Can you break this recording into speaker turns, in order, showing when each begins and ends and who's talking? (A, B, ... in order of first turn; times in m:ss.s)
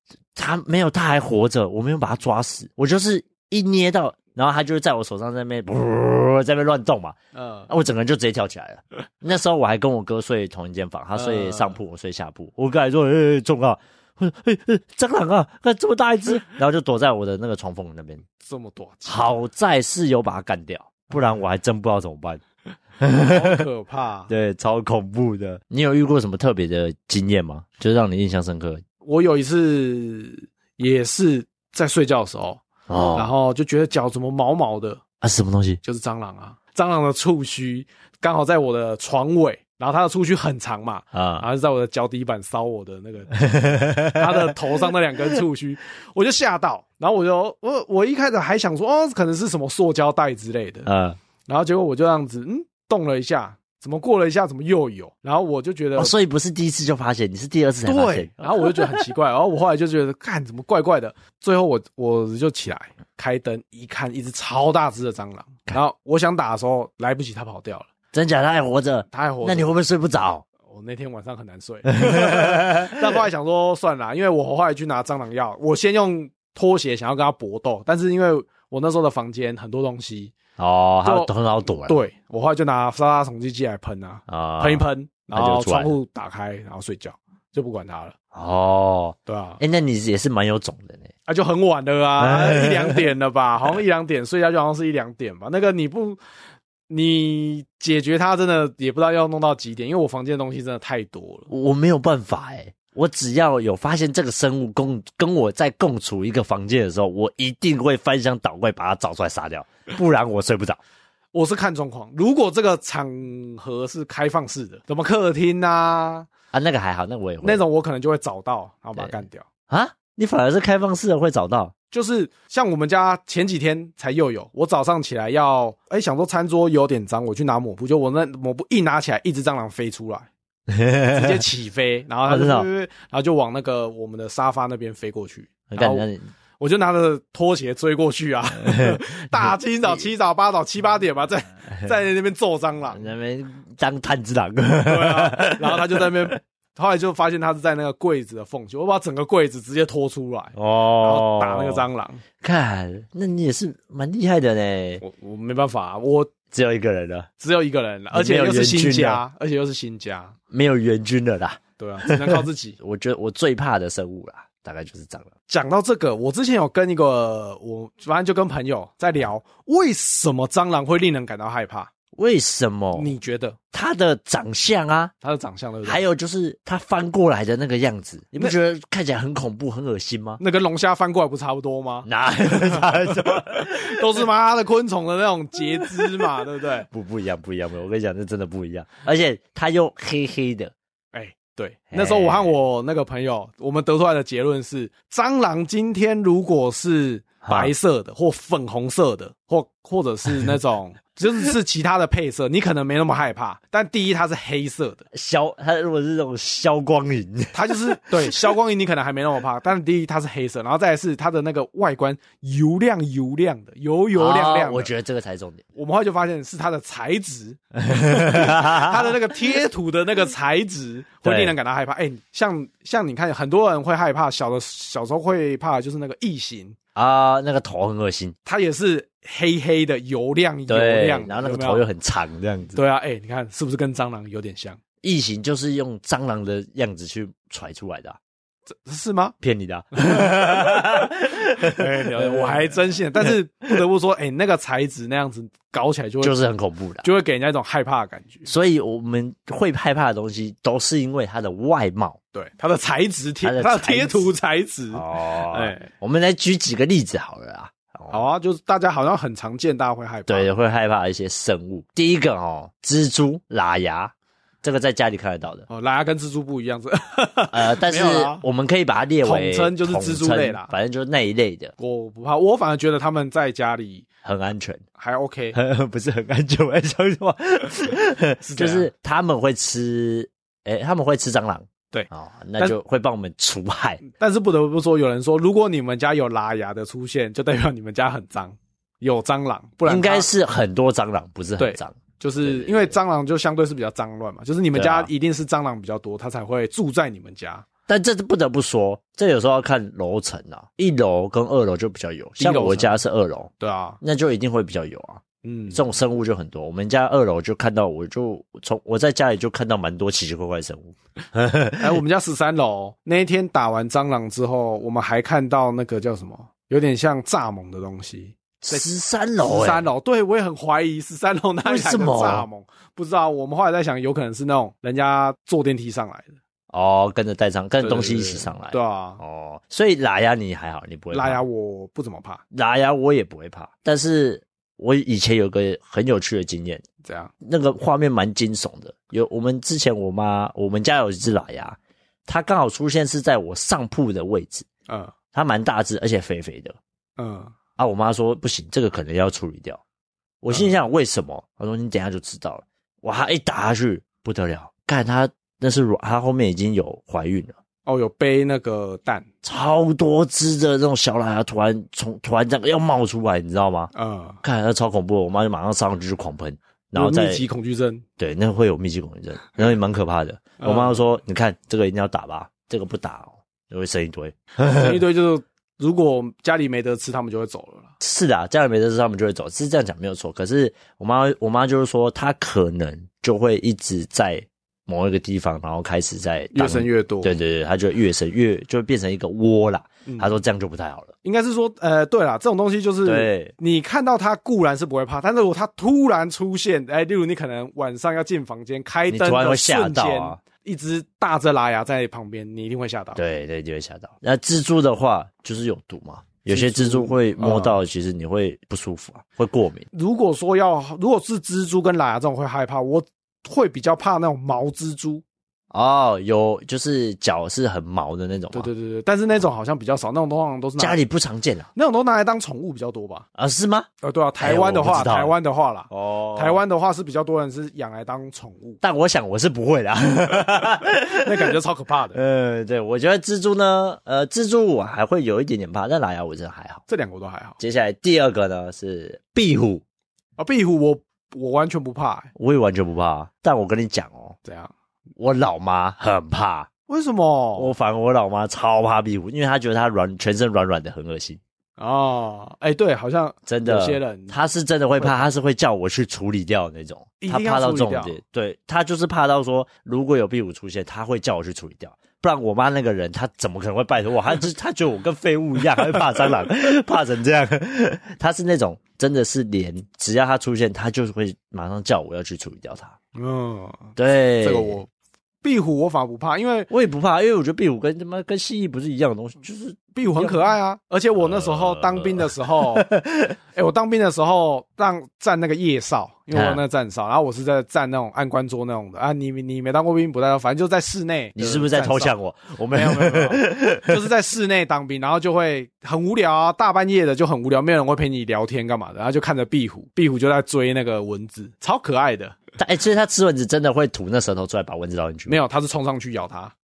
0:00.4-0:07.2 A
0:07.3-0:07.7 B
0:07.7-0:18.2 A
0:11.1-0:11.8 B
0:18.4-0:19.4 B
0:19.0-0:22.4 A
0:23.0-0:23.6 A
0:23.1-0:24.3 B
0:24.3-0:28.8 A
0:29.0-0:32.6 B
0:32.9-0:33.3 A
0:33.1-0:35.0 B
0:35.2-0:35.8 A
0:35.8-0:43.4 B
0:41.1-0:41.5 A
0:43.4-0:44.5 A
0:44.1-0:50.9 B
0:50.8-0:51.2 A
0:51.5-0:56.1 B
0:56.0-0:58.9 A
0:57.8-1:07.9 B
1:08.1-1:10.4 A
1:09.1-1:09.7 B
1:10.6-1:20.3 B
1:11.9-1:13.1 A
1:20.6-1:22.0 A
1:21.0-1:28.1 B
1:24.3-1:26.0 A
1:28.3-1:31.1 A
1:29.3-1:29.6 B
1:31.3-1:36.2 B
1:32.2-1:33.0 A
1:36.9-1:41.5 B
1:41.5-1:50.8 A
1:51.3-1:56.3 B
1:56.5-1:57.6 A
1:57.4-1:59.4 B
1:59.7-2:01.7 A
2:01.9-2:10.3 B
2:10.7-2:11.4 A
2:11.1-2:16.0 B
2:12.3-2:12.7 A
2:15.7-2:16.2 A
2:16.6-2:23.0 B
2:22.9-2:26.3 A
2:24.8-2:32.2 B
2:30.5-2:31.8 A
2:32.4-2:35.0 A
2:35.0-2:36.3 B
2:36.5-2:37.3 A
2:37.4-2:40.3 B
2:38.1-2:39.2 A
2:40.5-2:45.3 A
2:41.8-2:42.8 B
2:45.5-2:51.9 B
2:52.1-2:53.1 A
2:52.9-2:53.6 B
2:53.7-2:55.1 A
2:55.2-2:56.0 B
2:55.8-3:00.4 A
3:00.4-3:06.9 B
3:02.0-3:04.2 A
3:05.8-3:10.7 A
3:11.1-3:25.0 B
3:11.9-3:12.5 A
3:17.4-3:17.7 A
3:25.1-3:28.3 A
3:27.5-3:34.9 B
3:34.1-3:35.6 A
3:35.7-3:46.8 B
3:37.8-3:39.1 A
3:41.2-3:41.5 A
3:46.9-3:48.3 A
3:48.4-3:51.8 B
3:50.7-3:52.8 A
3:52.7-3:54.8 B
3:55.0-3:58.2 A
3:58.8-3:59.3 B
3:59.4-4:02.7 A
4:00.0-4:00.8 B
4:01.6-4:06.4 B
4:06.2-4:07.0 A
4:07.0-4:08.5 B
4:08.4-4:12.2 A
4:12.3-4:15.9 B
4:13.4-4:14.3 A
4:14.9-4:18.2 A
4:18.1-4:20.5 B
4:20.3-4:25.7 A
4:25.7-4:28.4 B
4:27.5-4:31.7 A
4:29.2-4:30.7 B
4:31.8-4:34.1 B
4:34.2-4:34.8 A
4:35.0-4:35.6 B
4:35.5-4:44.0 A
4:38.4-4:38.9 B
4:41.9-4:42.8 B
4:44.0-4:50.3 B
4:49.8-4:52.9 A
4:51.6-4:57.7 B
4:54.7-4:55.1 A
4:57.9-5:03.5 A
5:02.4-5:03.0 B
5:03.6-5:04.0 B
5:04.0-5:12.0 A
5:05.4-5:05.8 B
5:11.8-5:18.8 B
5:18.6-5:19.8 A
5:19.4-5:26.4 B
5:21.6-5:22.4 A
5:26.7-5:31.4 A
5:27.8-5:29.2 B
5:31.1-5:32.4 B
5:32.5-5:36.8 A
5:37.0-5:37.3 B
5:37.4-5:44.6 A
5:44.9-5:45.1 B
5:45.3-5:46.8 A
5:47.2-5:47.5 B
5:47.8-5:49.8 A
5:50.4-5:57.6 A
5:57.8-5:59.2 B
5:59.4-6:03.9 A
6:03.9-6:04.4 B
6:04.4-6:07.4 A
6:06.9-6:08.0 B
6:08.2-6:15.0 A
6:10.6-6:11.0 B
6:14.6-6:17.9 B
6:18.0-6:31.1 A
6:26.5-6:27.3 B
6:30.0-6:30.3 B
6:31.2-6:43.2 B
6:33.0-6:33.5 A
6:39.1-6:40.4 A
6:43.2-6:49.9 A
6:46.5-6:47.8 B
6:49.9-6:55.2 B
6:55.7-6:58.7 A
6:58.5-7:01.0 B
7:00.8-7:01.7 A
7:01.7-7:03.3 B
7:03.4-7:03.9 A
7:04.0-7:08.8 B
7:04.4-7:05.3 A
7:05.9-7:06.6 A
7:08.8-7:11.5 A
7:11.1-7:12.2 B
7:12.1-7:16.8 A
7:16.9-7:17.6 B
7:17.6-7:19.8 A
7:20.4-7:22.3 B
7:22.4-7:24.4 A
7:24.4-7:24.7 B
7:25.2-7:26.7 A
7:26.9-7:27.7 B
7:27.6-7:31.4 A
7:31.8-7:34.4 B
7:33.5-7:52.9 A
7:35.0-7:35.2 B
7:37.2-7:38.2 B
7:53.1-7:54.9 B
7:54.0-7:54.8 A
7:55.4-7:56.7 B
7:56.7-8:00.5 A
7:59.9-8:02.9 B
8:01.2-8:03.4 A
8:03.5-8:12.1 B
8:06.3-8:06.6 A
8:11.4-8:14.0 A
8:12.7-8:22.4 B
8:22.6-8:25.4 A
8:25.3-8:26.5 B